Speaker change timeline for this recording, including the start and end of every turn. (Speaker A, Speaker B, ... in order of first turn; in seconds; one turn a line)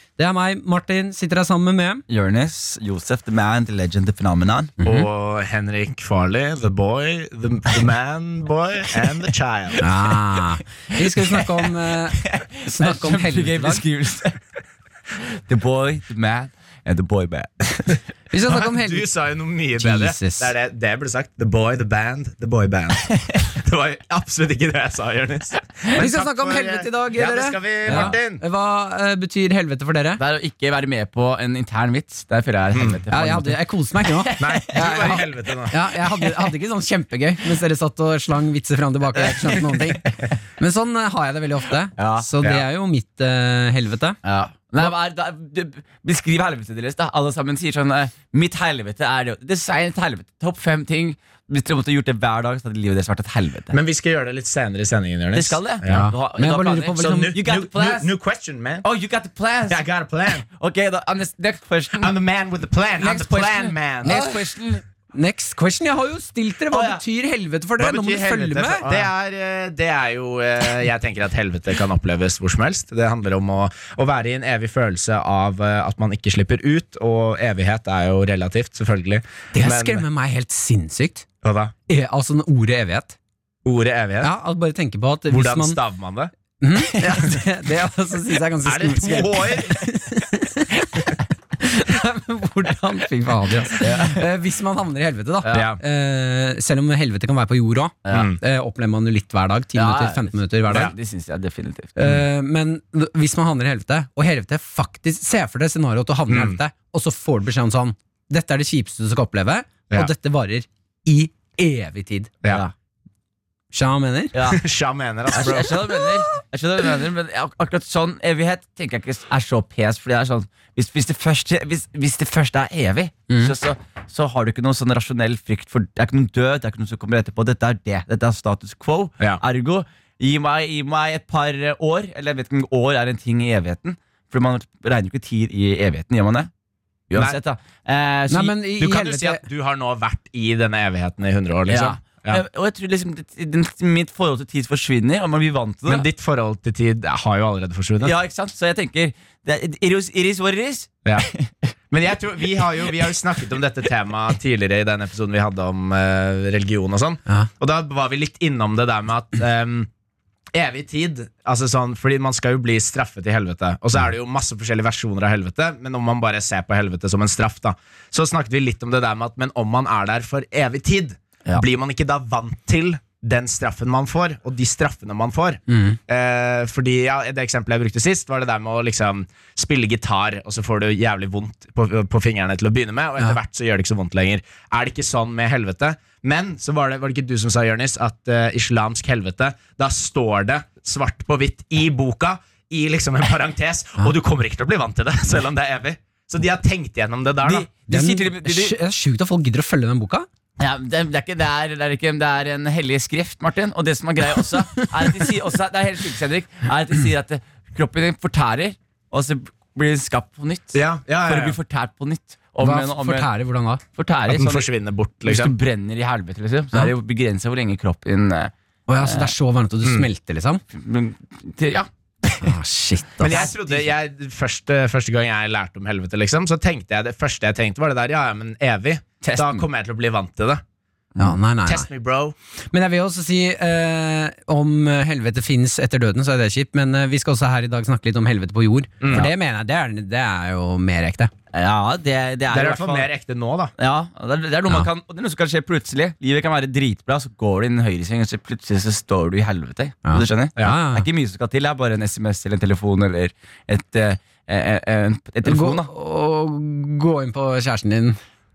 Speaker A: 0.2-2.0
Speaker B: 2.1-4.8
Speaker A: 4.8-5.1
Speaker C: 4.8-9.8
Speaker A: 9.8-13.8
Speaker B: 12.2-14.4
Speaker B: 15.2-18.0
Speaker A: 18.3-19.1
Speaker C: 18.5-28.4
Speaker A: 19.8-20.5
Speaker A: 26.0-30.2
Speaker B: 27.9-28.1
Speaker B: 30.2-35.3
Speaker C: 32.7-33.0
Speaker A: 33.1-44.2
Speaker C: 34.4-35.9
Speaker B: 39.2-40.0
Speaker B: 42.0-42.3
Speaker B: 44.2-53.8
Speaker C: 53.7-56.1
Speaker B: 55.3-58.1
Speaker A: 55.9-57.4
Speaker C: 57.0-58.9
Speaker B: 58.8-59.9
Speaker C: 59.7-60.4
Speaker B: 60.5-62.1
Speaker C: 62.0-64.2
Speaker B: 63.0-64.8
Speaker A: 64.0-64.4
Speaker A: 65.1-68.8
Speaker B: 66.7-67.0
Speaker C: 67.8-80.0
Speaker A: 79.5-81.2
Speaker C: 81.4-81.7
Speaker A: 81.9-83.2
Speaker C: 83.6-84.3
Speaker A: 84.2-85.8
Speaker C: 85.3-86.3
Speaker A: 86.6-100.9
Speaker C: 87.0-87.4
Speaker C: 88.7-89.8
Speaker B: 93.8-94.2
Speaker C: 95.5-95.8
Speaker B: 98.0-98.3
Speaker C: 98.1-98.4
Speaker B: 99.8-102.0
Speaker A: 102.0-112.3
Speaker C: 106.3-106.6
Speaker A: 113.7-114.3
Speaker B: 114.3-114.6
Speaker C: 114.5-116.0
Speaker B: 115.3-136.5
Speaker A: 123.3-123.5
Speaker B: 137.1-138.6
Speaker A: 138.3-139.4
Speaker C: 138.8-142.4
Speaker B: 141.7-146.1
Speaker C: 145.9-148.2
Speaker B: 148.0-151.5
Speaker C: 151.9-159.9
Speaker C: 160.5-197.7
Speaker A: 175.7-176.0
Speaker B: 197.4-198.8
Speaker A: 197.9-200.3
Speaker B: 200.6-213.3
Speaker A: 204.8-205.2
Speaker C: 210.7-211.6
Speaker A: 212.6-213.8
Speaker B: 214.0-214.7
Speaker C: 214.3-215.6
Speaker B: 215.2-219.3
Speaker A: 218.9-220.6
Speaker B: 220.7-222.5
Speaker A: 222.4-223.5
Speaker C: 223.2-230.6
Speaker B: 223.2-223.8
Speaker B: 229.2-229.6
Speaker A: 231.2-231.9
Speaker C: 231.7-232.4
Speaker A: 232.7-241.3
Speaker C: 239.0-239.3
Speaker B: 241.5-243.1
Speaker C: 242.5-243.7
Speaker B: 243.8-255.9
Speaker A: 250.1-251.1
Speaker A: 255.4-258.2